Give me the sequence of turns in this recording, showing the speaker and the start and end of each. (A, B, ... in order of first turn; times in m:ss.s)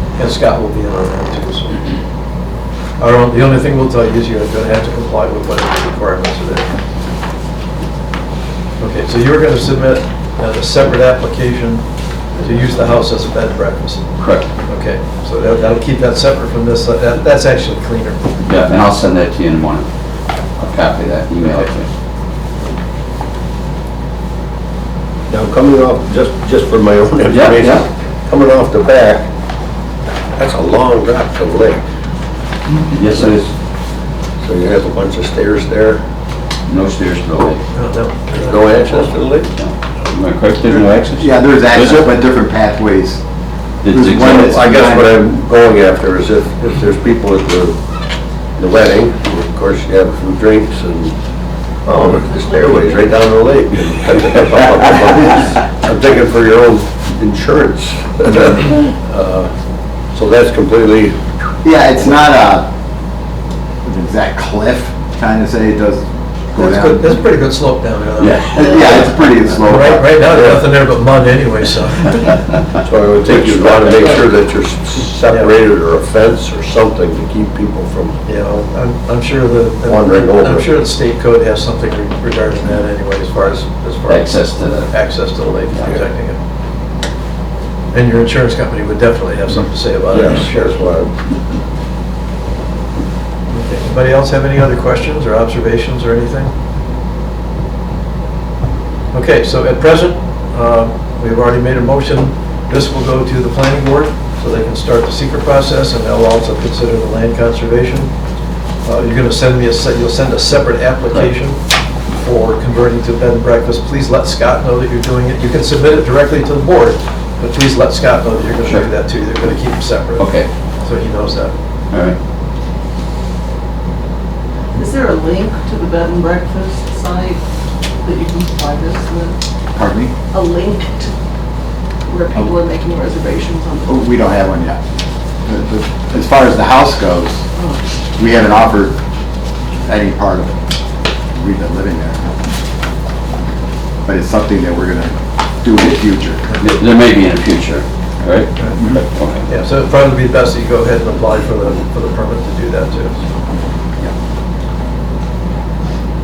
0:00.2-0:01.8 A
0:03.0-0:06.7 A
0:08.8-0:11.8 A
0:12.4-0:14.1 A
0:14.2-0:14.5 B
0:14.6-0:18.2 A
0:18.4-0:19.9 B
0:20.6-0:21.9 B
0:25.3-0:29.3 C
0:27.3-0:27.9 B
0:30.4-0:31.8 C
0:32.7-0:33.5 B
0:33.1-0:33.4 C
0:34.4-0:36.0 C
0:36.7-0:37.6 B
0:37.7-0:38.8 A
0:38.3-0:39.5 C
0:39.5-0:42.1 B
0:40.7-0:43.2 D
0:43.8-0:44.8 B
0:43.9-0:45.2 D
0:44.1-0:47.8 C
0:48.6-0:51.1 C
0:51.8-0:59.5 C
0:51.9-0:53.3 E
1:00.1-1:01.2 C
1:01.6-1:02.7 D
1:03.8-1:07.2 D
1:06.6-1:08.7 A
1:08.2-1:09.2 B
1:08.6-1:10.2 D
1:09.6-1:12.4 A
1:10.2-1:10.7 C
1:12.8-1:18.2 C
1:13.2-1:14.2 B
1:15.2-1:15.5 A
1:18.2-1:26.4 A
1:19.9-1:20.7 C
1:24.1-1:24.9 B
1:25.7-1:26.0 B
1:27.9-1:30.8 A
1:30.1-1:31.1 C
1:33.5-1:36.5 A
1:39.1-1:48.1 A
1:48.8-1:51.6 A
1:52.1-2:00.3 A
2:00.2-2:00.5 B
2:00.8-2:01.5 A
2:01.9-2:02.2 B
2:04.7-2:07.4 E
2:08.0-2:09.4 E
2:09.7-2:10.1 D
2:10.3-2:11.1 E
2:12.1-2:14.2 E
2:13.9-2:14.8 D
2:15.4-2:17.4 D
2:17.6-2:17.8 E
2:18.2-2:19.0 D
2:19.8-2:20.5 D
2:21.3-2:22.4 D
2:24.0-2:26.5 D
2:26.5-2:26.8 A
2:26.6-2:29.4 B
2:29.5-2:33.2 A